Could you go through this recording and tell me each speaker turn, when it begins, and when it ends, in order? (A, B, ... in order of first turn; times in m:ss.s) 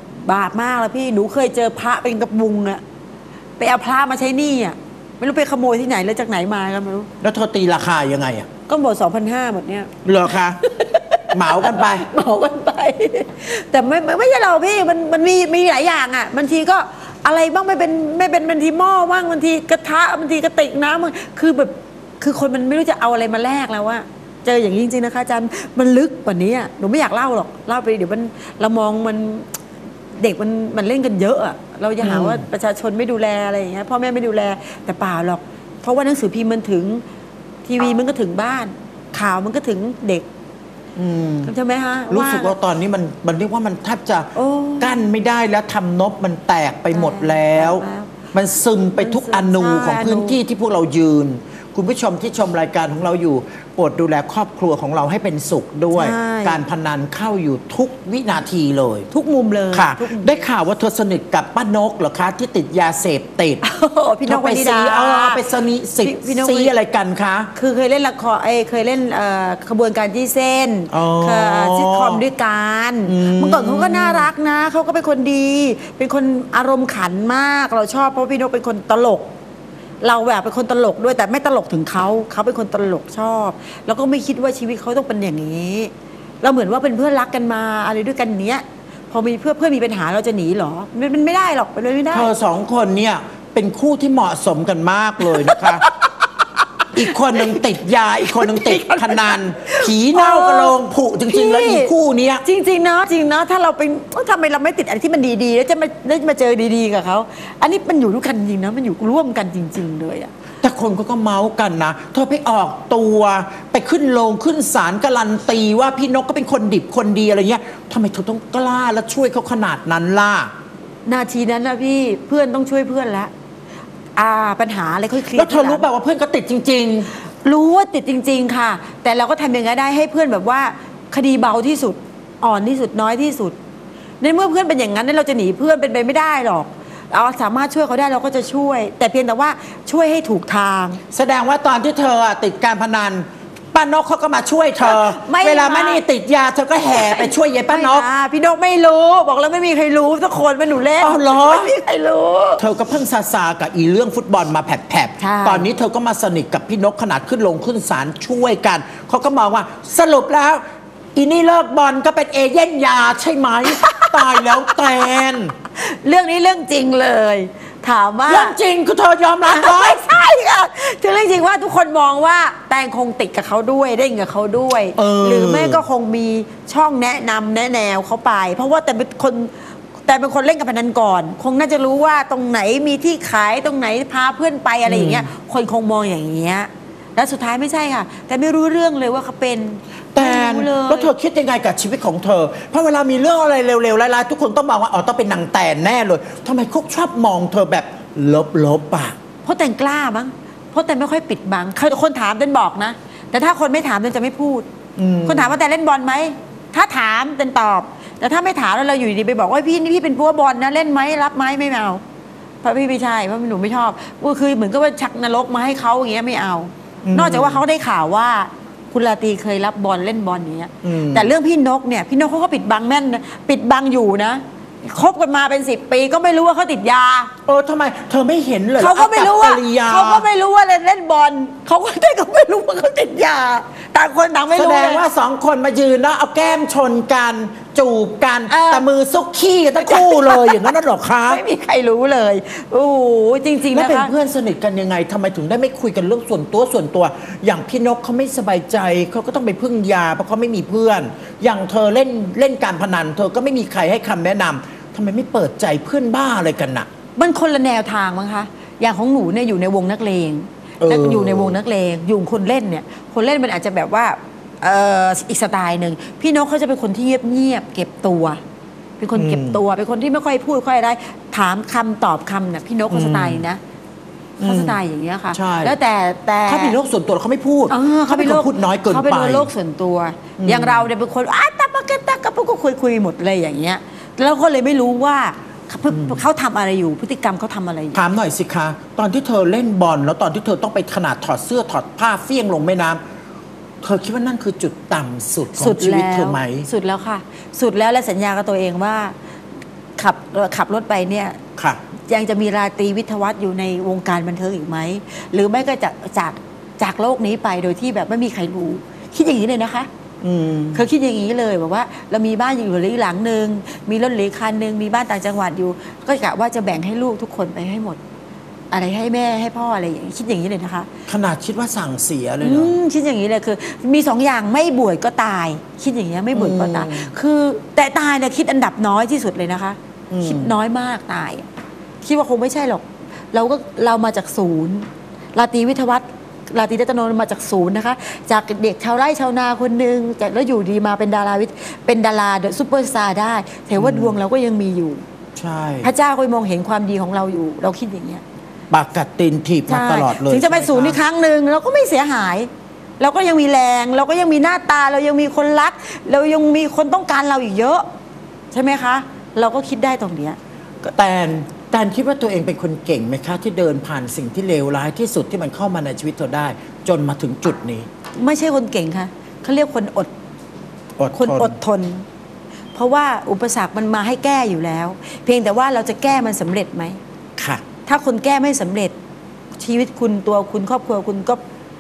0:00.2-0:02.8 A
0:03.6-0:07.1 A
0:07.2-0:08.5 B
0:08.7-0:29.5 A
0:10.0-0:10.6 B
0:11.3-0:12.1 B
0:30.2-0:37.0 A
0:32.0-0:32.4 B
0:37.6-0:40.3 A
0:41.0-0:41.5 B
0:41.4-0:42.6 A
0:42.1-0:59.1 B
0:44.4-0:45.0 A
0:46.9-0:48.2 A
0:49.0-0:50.4 A
0:55.9-0:56.6 A
0:59.1-1:00.4 A
0:59.7-1:03.6 B
1:03.6-1:05.4 A
1:04.3-1:07.5 B
1:06.0-1:06.7 A
1:07.6-1:19.3 A
1:10.9-1:12.2 B
1:13.1-1:14.3 B
1:20.0-1:32.3 A
1:32.1-1:35.8 B
1:35.2-1:36.3 A
1:36.9-1:42.4 B
1:37.0-1:37.7 A
1:38.3-1:40.8 A
1:41.3-1:41.9 A
1:42.4-1:50.3 A
1:50.6-2:00.5 B
2:01.1-2:03.3 A
2:04.2-2:05.8 A
2:05.3-2:07.1 B
2:07.4-2:13.6 A
2:14.2-2:21.0 A
2:21.1-2:28.0 B
2:24.8-2:26.0 A
2:26.9-2:32.6 A
2:31.0-2:31.7 B
2:32.6-2:40.6 B
2:35.2-2:35.7 A
2:41.2-2:45.5 B
2:43.7-2:45.1 A
2:45.8-2:48.6 A
2:48.3-2:50.0 B
2:49.5-2:59.5 A
2:55.0-2:55.8 B
3:00.1-3:11.1 A
3:04.8-3:05.3 B
3:10.2-3:19.2 B
3:19.4-3:24.7 A
3:25.0-3:25.5 B
3:25.2-3:32.0 A
3:32.6-3:47.3 A
3:37.0-3:37.6 B
3:40.8-3:41.3 B
3:47.5-3:50.3 B
3:48.8-3:55.0 A
3:54.5-4:01.4 B
3:58.5-3:58.9 A
3:59.8-4:04.1 A
4:03.7-4:16.9 B
4:17.2-4:28.4 A
4:20.8-4:21.6 B
4:29.0-4:33.6 A
4:29.2-4:29.6 B
4:32.9-4:33.4 B
4:34.4-4:36.8 A
4:34.4-4:34.8 B
4:35.3-4:35.8 B
4:36.5-4:39.5 B
4:37.7-4:48.0 A
4:40.4-4:40.9 B
4:45.9-4:46.2 B
4:47.9-4:53.0 B
4:53.8-4:56.7 B
4:55.6-4:59.2 A
5:00.0-5:01.4 A
5:02.1-5:09.9 A
5:10.2-5:10.9 B
5:10.7-5:18.0 A
5:18.7-5:20.9 A
5:21.1-5:22.8 B
5:22.4-5:31.5 A
5:26.3-5:27.1 B
5:30.1-5:30.6 B
5:32.0-5:45.0 A
5:43.8-5:44.2 B
5:45.4-5:45.9 B
5:45.8-5:48.2 A
5:48.7-5:51.0 B
5:49.7-5:57.8 A
5:58.5-6:00.4 A
6:00.8-6:07.9 B
6:08.2-6:10.1 A
6:11.0-6:11.6 B
6:11.1-6:12.0 A
6:12.7-6:17.0 A
6:17.4-6:17.6 B
6:17.8-6:19.0 A
6:19.6-6:21.4 A